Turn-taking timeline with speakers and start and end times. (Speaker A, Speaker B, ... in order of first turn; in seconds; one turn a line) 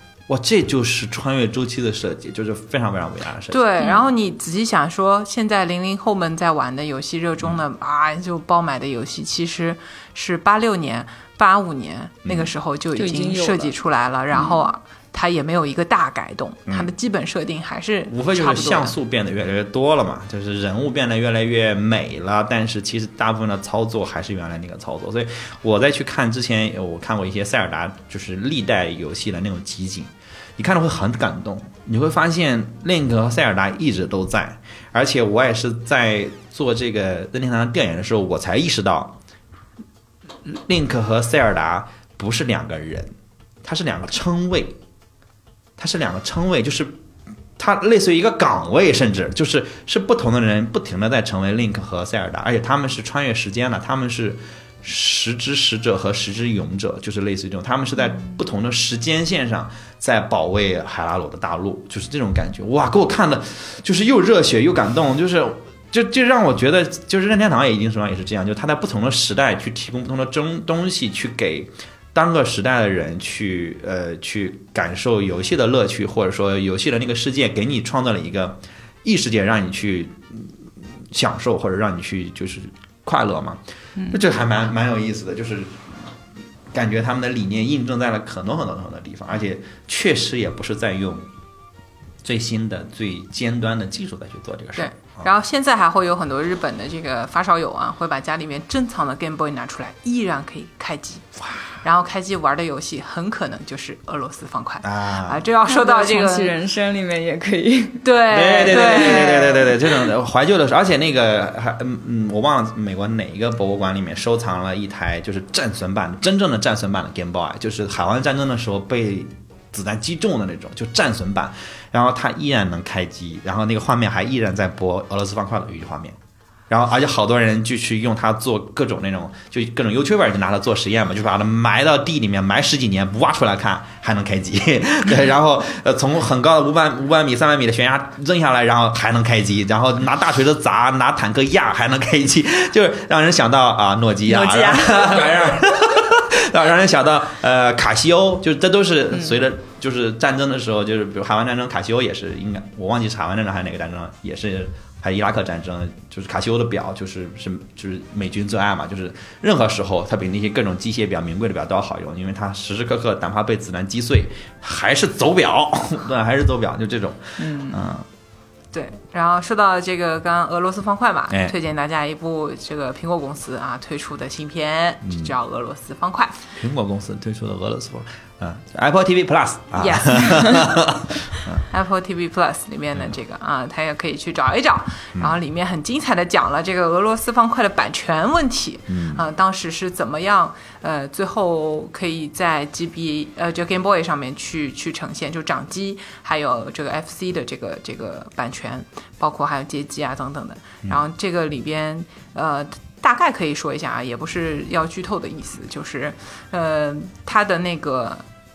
Speaker A: 0.3-3.6
Speaker B: 3.5-18.9
Speaker A: 12.2-12.5
Speaker C: 12.9-13.7
Speaker A: 16.7-16.9
Speaker A: 18.1-39.1
Speaker A: 40.4-43.1
Speaker A: 43.6-44.8
Speaker A: 45.8-47.0
Speaker A: 47.6-86.1
Speaker A: 86.7-91.3
Speaker A: 92.2-95.3
Speaker B: 94.8-101.2
Speaker B: 101.8-106.5
Speaker A: 104.8-105.4
Speaker C: 105.7-108.0
Speaker B: 108.0-109.7
Speaker A: 108.3-126.2
Speaker C: 108.7-109.5
Speaker A: 126.7-168.1
Speaker C: 144.3-145.3
Speaker B: 167.5-167.8
Speaker B: 168.7-176.4
Speaker A: 176.5-181.6
Speaker B: 179.8-180.6
Speaker B: 181.7-208.2
Speaker A: 188.9-189.2